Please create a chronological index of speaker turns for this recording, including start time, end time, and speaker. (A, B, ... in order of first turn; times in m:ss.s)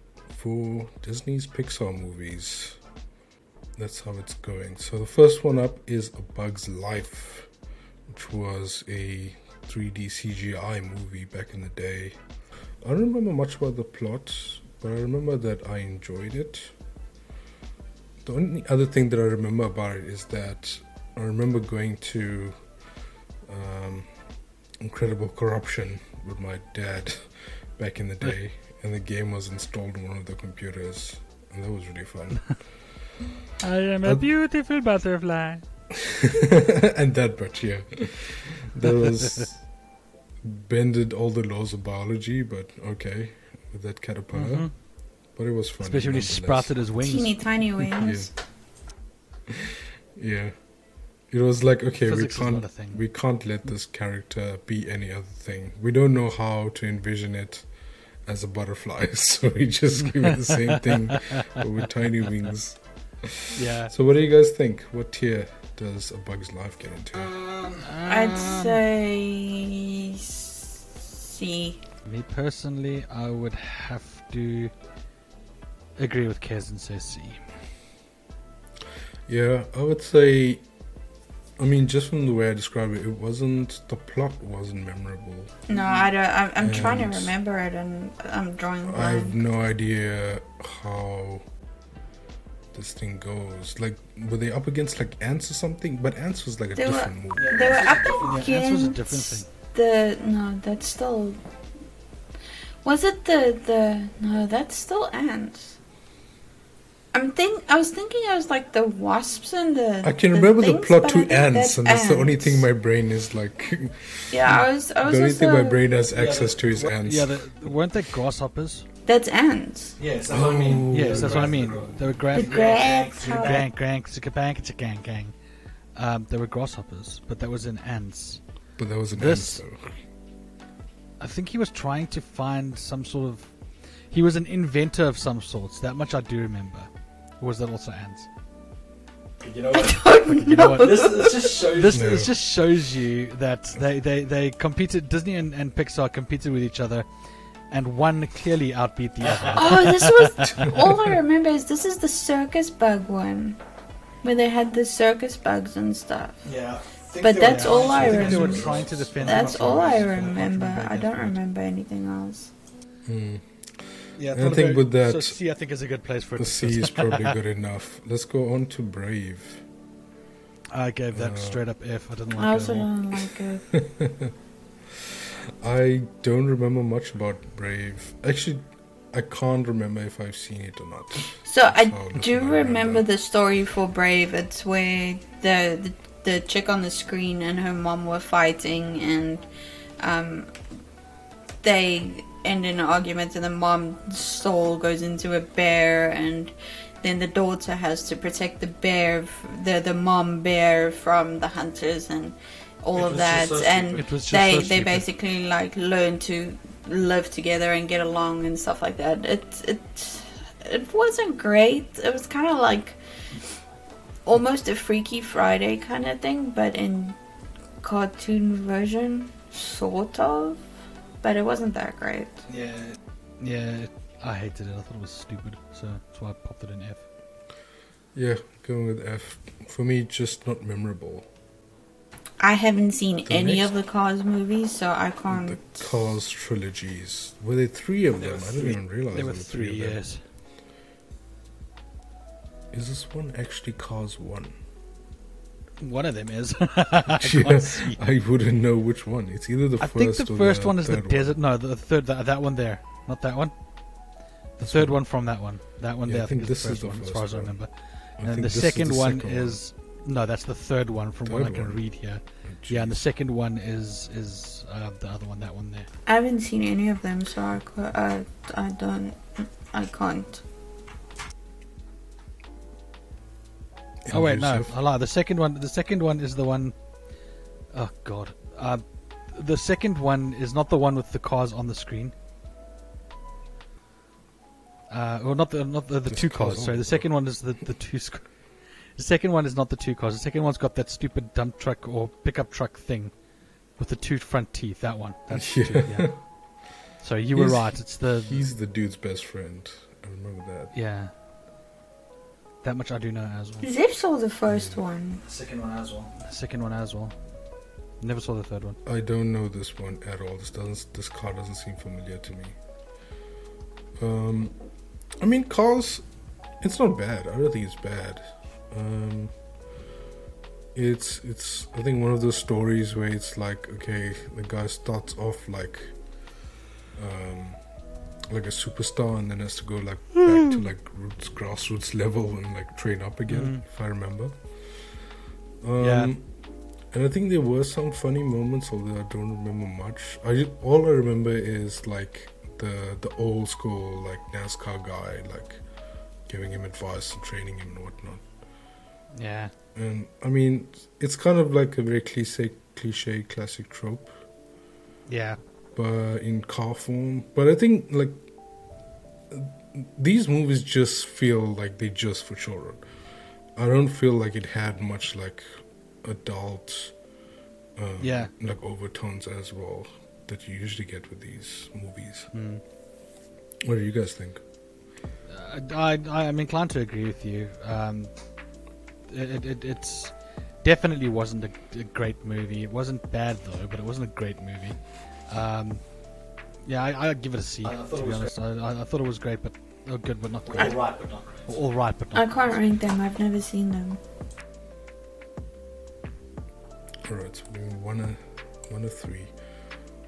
0:00.3-0:02.8 A
0:03.8-0:07.5 A
0:08.1-0:12.2 A
0:12.8-0:16.8 A
0:18.2-0:22.7 A
0:23.4-0:24.1 A
0:24.8-0:32.7 A
0:33.6-0:35.6 B
0:36.1-0:39.7 A
0:40.4-0:44.8 A
0:44.3-0:44.8 B
0:45.3-0:46.8 A
0:45.8-0:47.5 B
0:47.0-0:48.3 C
0:48.0-0:48.3 A
0:50.2-1:07.4 A
0:52.0-0:53.0 B
1:03.5-1:03.9 B
1:07.3-1:07.9 D
1:07.8-1:08.8 B
1:08.1-1:11.8 C
1:12.1-1:14.7 B
1:16.0-1:17.4 B
1:19.3-1:20.7 A
1:21.6-1:25.6 A
1:25.7-1:29.4 C
1:26.6-1:27.3 A
1:28.8-1:31.4 A
1:32.7-1:37.8 A
1:36.8-1:41.4 C
1:37.4-1:38.4 D
1:38.2-1:39.5 B
1:42.8-1:45.8 C
1:47.1-1:52.6 C
1:50.0-1:57.5 A
1:54.3-1:55.9 C
1:56.1-1:56.7 D
1:56.7-1:58.8 B
1:59.1-2:00.0 C
2:00.0-2:03.7 D
2:00.3-2:01.9 A
2:00.8-2:05.3 B
2:02.3-2:03.6 C
2:06.0-2:08.4 B
2:08.8-2:10.0 A
2:09.2-2:09.6 B
2:11.2-2:13.5 B
2:14.1-2:18.3 B
2:19.4-2:19.8 D
2:19.7-2:21.8 C
2:19.8-2:27.1 B
2:20.9-2:22.0 D
2:21.9-2:22.3 A
2:27.7-2:30.8 B
2:29.2-2:29.7 D
2:29.5-2:33.6 C
2:34.2-2:36.4 C
2:36.4-2:40.3 D
2:37.2-2:42.5 C
2:37.4-2:41.4 B
2:38.0-2:38.3 A
2:43.1-2:45.4 A
2:44.2-2:47.3 B
2:46.4-2:49.6 A
2:50.7-2:52.9 B
2:51.1-2:51.6 A
2:52.4-2:53.7 C
2:53.7-2:54.3 A
2:55.6-3:03.1 A
3:01.4-3:09.5 C
3:10.0-3:10.6 C
3:11.6-3:33.0 C
3:23.0-3:24.1 D
3:24.0-3:25.1 B
3:34.2-3:37.2 C
3:37.8-3:40.7 C
3:41.2-3:42.4 C
3:42.5-3:47.0 B
3:48.1-3:51.3 A
3:52.4-3:55.6 C
3:53.3-3:53.7 A
3:55.3-4:00.0 A
3:58.6-4:00.2 B
4:02.7-4:04.6 A
4:05.8-4:08.0 B
4:07.2-4:11.4 A
4:09.8-4:25.9 B
4:14.6-4:15.0 A
4:16.0-4:17.6 A
4:18.2-4:19.6 A
4:21.3-4:21.9 A
4:22.4-4:23.0 A
4:26.1-4:30.4 C
4:34.0-4:34.7 A
4:34.1-4:36.8 B
4:37.7-4:42.1 B
4:44.9-4:58.4 B
4:46.1-4:47.1 A
4:55.3-4:56.5 A
4:57.3-5:00.7 A
5:00.7-5:01.1 B
5:02.6-5:03.7 B
5:03.6-5:05.2 C
5:04.5-5:04.8 A
5:05.3-5:07.2 B
5:08.0-5:08.8 B
5:08.8-5:12.6 A
5:14.0-5:14.6 A
5:15.2-5:19.3 A
5:20.8-5:26.0 A
5:27.0-5:34.6 A
5:33.3-5:33.6 B
5:35.6-5:36.3 A
5:35.8-5:36.1 B
5:36.9-5:45.6 A
5:46.3-5:48.3 A
5:49.1-5:49.5 B
5:49.8-5:54.2 A
5:55.1-5:55.4 B
5:55.7-5:58.2 A
5:59.3-6:02.9 A
6:03.6-6:07.0 A
6:07.8-6:12.3 A
6:08.0-6:08.3 B
6:12.3-6:12.6 B
6:13.6-6:14.4 A
6:15.3-6:32.6 B
6:27.6-6:28.3 D
6:30.5-6:31.6 D
6:32.1-6:34.0 C
6:37.0-6:39.4 A